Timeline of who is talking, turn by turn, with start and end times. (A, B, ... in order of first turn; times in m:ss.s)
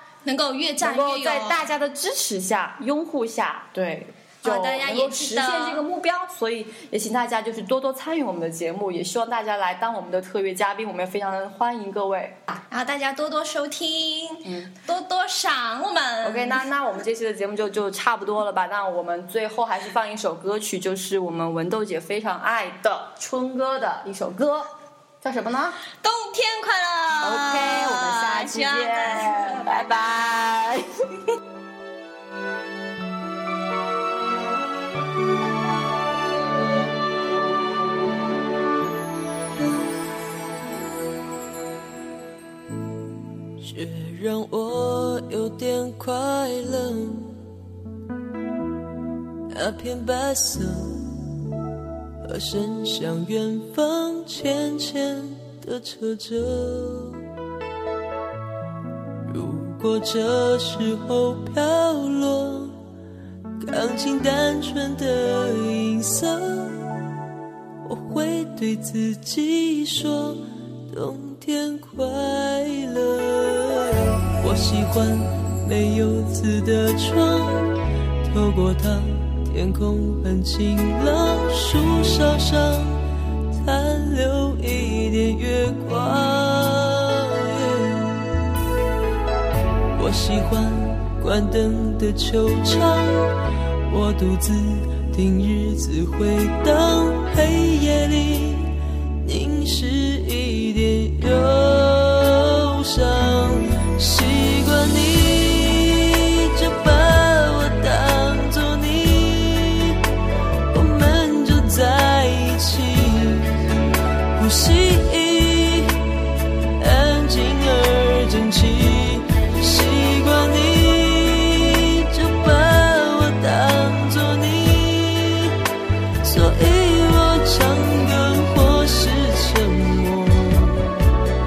0:00.2-0:01.6 A
0:00.8-0:12.6 B
0:04.4-0:05.8 A
0:12.7-0:16.7 A
0:14.4-0:14.7 B
0:16.2-0:25.8 B
0:26.0-0:30.1 A
0:27.2-0:30.9 B
0:43.6-0:47.4 C
0:49.5-0:51.3 C
0:52.2-0:57.3 C
0:59.2-1:02.8 C
1:03.6-1:07.0 C
1:07.8-1:28.3 C
1:30.0-1:33.4 C
1:33.9-1:50.0 C
1:50.7-1:53.6 C
1:54.4-1:56.2 C
1:56.8-2:05.6 C
2:06.2-2:11.0 C